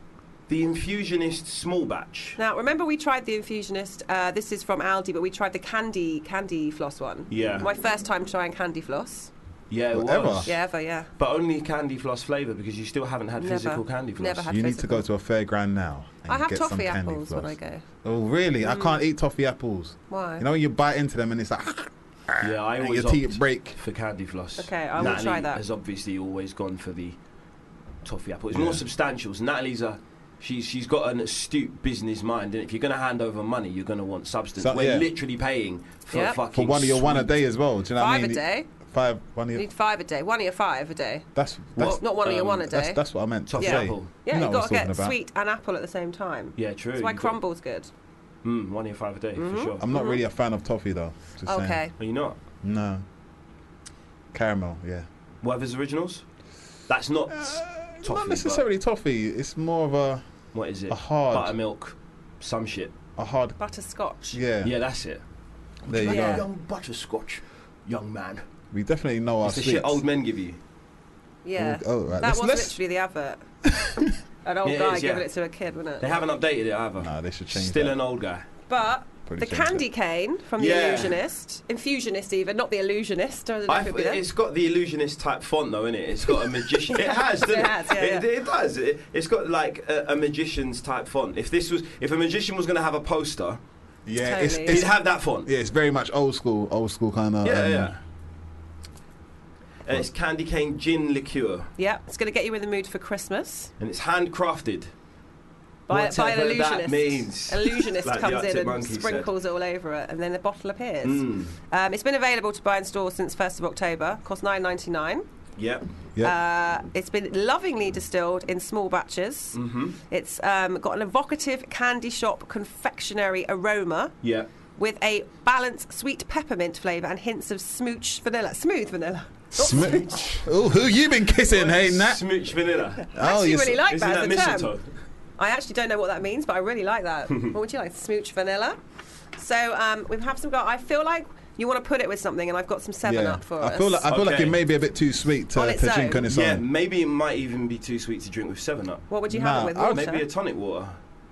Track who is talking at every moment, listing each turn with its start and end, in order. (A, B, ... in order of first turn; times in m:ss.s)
0:00.5-0:02.4 A
0:02.4-0:09.3 B
0:07.3-0:07.7 A
0:09.7-0:10.5 A
0:09.9-0:10.5 C
0:10.4-0:11.1 B
0:11.2-0:14.5 A
0:13.4-0:15.0 B
0:14.5-0:23.8 C
0:16.3-0:17.8 B
0:18.6-0:19.0 B
0:20.1-0:20.4 B
0:22.4-0:27.2 A
0:24.6-0:25.6 B
0:28.0-0:37.3 A
0:28.5-0:28.8 C
0:34.6-0:35.1 C
0:36.1-0:36.4 B
0:36.5-0:39.7 C
0:38.0-0:38.7 B
0:39.6-0:41.3 B
0:41.4-0:45.2 C
0:41.8-0:42.7 A
0:41.8-0:43.0 B
0:43.5-0:44.1 A
0:43.6-0:47.9 B
0:46.6-0:47.4 A
0:48.4-0:49.8 A
0:49.4-0:50.2 B
0:49.8-0:51.9 C
0:51.5-0:51.9 B
0:52.0-0:52.4 A
0:52.6-0:53.0 C
0:54.3-0:55.1 C
0:55.4-0:56.2 A
0:56.9-0:58.6 A
0:57.3-1:00.2 C
1:00.5-1:02.9 A
1:00.9-1:01.6 C
1:03.2-1:03.6 C
1:03.6-1:04.4 B
1:04.3-1:04.7 C
1:04.6-1:05.2 A
1:05.9-1:06.4 C
1:05.9-1:08.4 A
1:06.1-1:06.4 B
1:08.7-1:10.0 C
1:09.4-1:10.6 A
1:11.4-1:13.4 B
1:11.6-1:12.8 C
1:13.7-1:14.1 C
1:14.4-1:16.2 B
1:14.6-1:15.3 A
1:16.0-1:18.4 A
1:17.0-1:18.0 C
1:18.7-1:24.2 B
1:19.3-1:19.8 C
1:20.6-1:21.2 A
1:23.7-1:33.6 A
1:26.9-1:28.3 B
1:34.1-1:37.9 C
1:34.2-1:34.8 B
1:34.7-1:35.5 A
1:37.4-1:38.0 A
1:39.8-1:41.7 A
1:41.8-1:43.7 B
1:43.8-1:44.9 A
1:45.9-1:55.3 B
1:45.9-1:49.3 A
1:51.0-1:51.5 A
1:55.6-1:55.9 A
1:56.2-2:04.2 B
1:59.5-2:00.0 A
2:04.2-2:04.5 A
2:04.8-2:10.0 B
2:09.6-2:12.2 C
2:09.6-2:10.5 A
2:11.4-2:13.0 A
2:13.1-2:13.8 C
2:13.1-2:14.8 B
2:13.8-2:14.9 A
2:15.4-2:18.8 B
2:19.4-2:24.0 B
2:23.0-2:26.6 C
2:24.1-2:24.6 A
2:25.6-2:26.2 B
2:26.3-2:29.1 A
2:29.1-2:30.2 B
2:29.3-2:30.1 C
2:29.9-2:31.0 A